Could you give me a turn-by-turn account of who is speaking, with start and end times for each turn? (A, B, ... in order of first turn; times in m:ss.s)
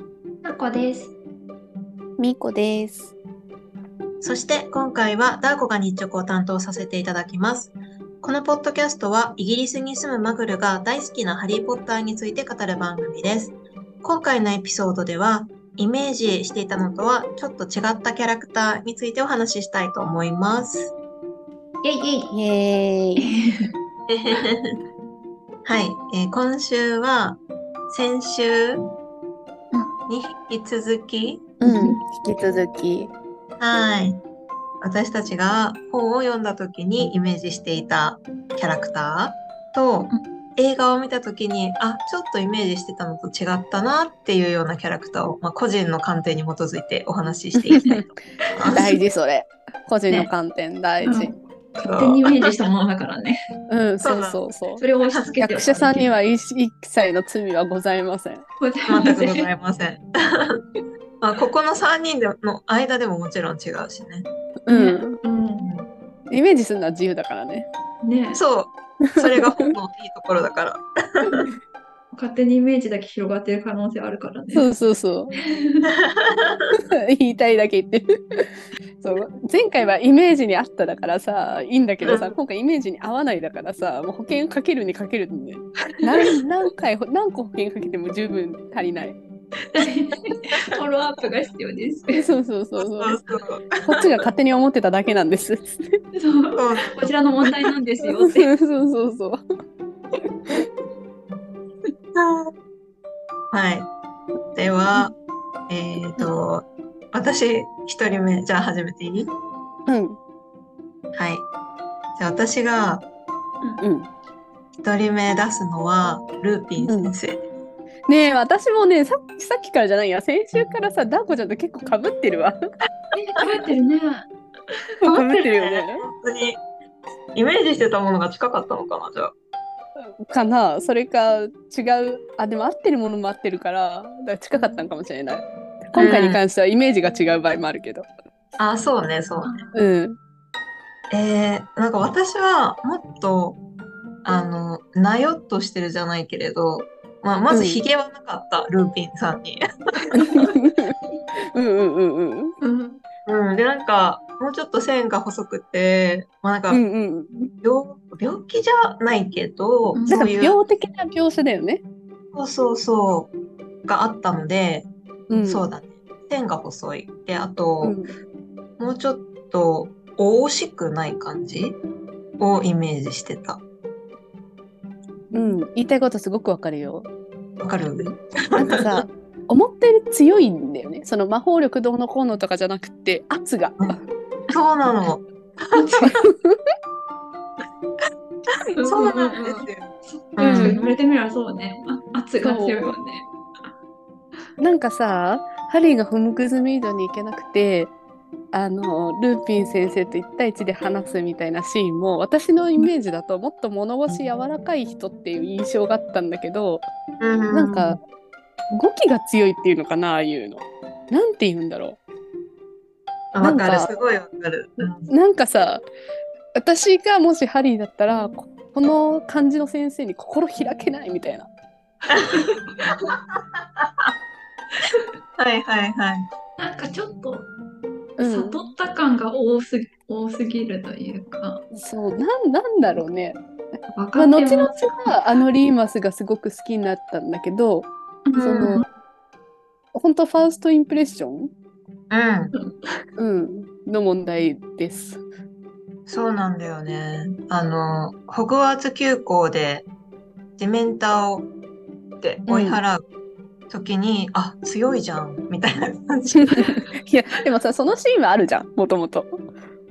0:00.4-0:01.2 A
0:02.2-0:03.1 B
0:04.2-0:20.9 C
0:21.8-0:22.3 A
0:22.3-0:23.3 B
0:23.2-0:23.7 A
0:24.1-0:24.8 C
0:25.6-0:28.8 C
0:30.1-0:31.5 C
0:31.6-0:33.1 B
0:31.6-0:32.0 A
0:33.6-0:34.2 C
0:34.8-0:48.9 C
0:47.6-0:48.1 B
0:48.6-0:49.0 A
0:48.7-0:51.4 B
0:51.0-0:53.4 A
0:51.9-0:52.3 C
0:53.7-0:54.8 B
0:54.0-0:54.4 C
0:54.8-0:56.1 A
0:55.4-0:58.4 B
0:58.6-0:59.5 A
0:58.9-1:00.6 C
1:01.2-1:04.3 C
1:04.7-1:05.2 B
1:04.7-1:05.7 A
1:05.6-1:05.9 C
1:06.3-1:07.7 B
1:08.0-1:08.4 A
1:08.4-1:11.5 C
1:09.1-1:09.5 B
1:12.1-1:14.7 A
1:14.5-1:15.4 B
1:15.4-1:15.9 A
1:16.0-1:16.7 C
1:16.9-1:29.2 B
1:22.0-1:22.3 C
1:29.7-1:32.3 A
1:32.1-1:33.2 B
1:32.8-1:34.3 C
1:33.8-1:36.0 B
1:36.2-1:38.5 A
1:36.6-1:37.1 C
1:38.3-1:39.4 B
1:40.2-1:40.7 B
1:42.2-1:42.5 C
1:43.5-1:43.9 C
1:44.5-1:45.1 C
1:45.7-1:49.3 C
1:49.9-1:50.2 B
1:51.1-1:51.5 C
1:52.2-1:53.0 C
1:53.8-1:54.1 B
1:54.8-1:57.5 C
1:56.8-1:57.2 B
1:58.1-2:02.6 B
2:03.1-2:04.3 A
2:05.0-2:05.4 A
2:05.1-2:06.0 B
2:05.1-2:06.6 C
2:07.3-2:09.3 C
2:10.0-2:18.1 B
2:14.5-2:14.8 A
2:16.0-2:16.4 C
2:18.6-2:19.6 C
2:19.4-2:19.7 A
2:19.8-2:20.2 B
2:21.1-2:23.6 C
2:24.2-2:29.6 C
2:27.5-2:27.8 B
2:30.1-2:30.6 A
2:30.2-2:32.6 B
2:32.6-2:33.0 A
2:33.3-2:36.8 C
2:36.7-2:37.3 B
2:37.6-2:40.6 C
2:39.9-2:40.3 A
2:40.1-2:41.8 B
2:42.3-2:43.3 C
2:43.9-2:48.0 C
2:45.3-2:45.6 B
2:47.8-2:48.1 B
2:48.8-2:51.8 C
2:52.4-2:53.6 C
2:55.3-2:55.6 A
2:55.3-2:57.1 B
2:57.6-2:59.1 C
2:58.6-3:04.0 B
3:04.5-3:06.2 C
3:05.7-3:06.2 A
3:06.1-3:06.6 B
3:08.7-3:13.3 A
3:08.8-3:10.8 C
3:10.4-3:10.9 B
3:12.4-3:12.9 B
3:14.6-3:17.9 B
3:18.5-3:26.8 B
3:27.2-3:28.0 C
3:27.5-3:28.0 B
3:28.7-3:32.0 B
3:33.3-3:35.1 C
3:33.4-3:33.9 B
3:35.1-3:35.8 B
3:36.6-3:41.5 B
3:42.1-3:43.1 A
3:42.9-3:43.2 C
3:43.8-3:44.1 C
3:45.4-3:46.3 C
3:46.6-3:47.5 A
3:48.2-3:48.7 B
3:48.2-3:51.6 A
3:51.7-3:53.4 B
3:53.9-3:55.2 A
3:54.2-3:58.8 B
3:58.3-3:58.9 A
3:58.4-3:58.8 C
3:59.9-4:01.5 B
4:02.1-4:02.5 C
4:03.2-4:05.2 B
4:06.1-4:09.9 C
4:10.6-4:11.5 C
4:12.2-4:13.0 C
4:12.5-4:12.8 B
4:13.7-4:16.8 C
4:16.6-4:19.3 B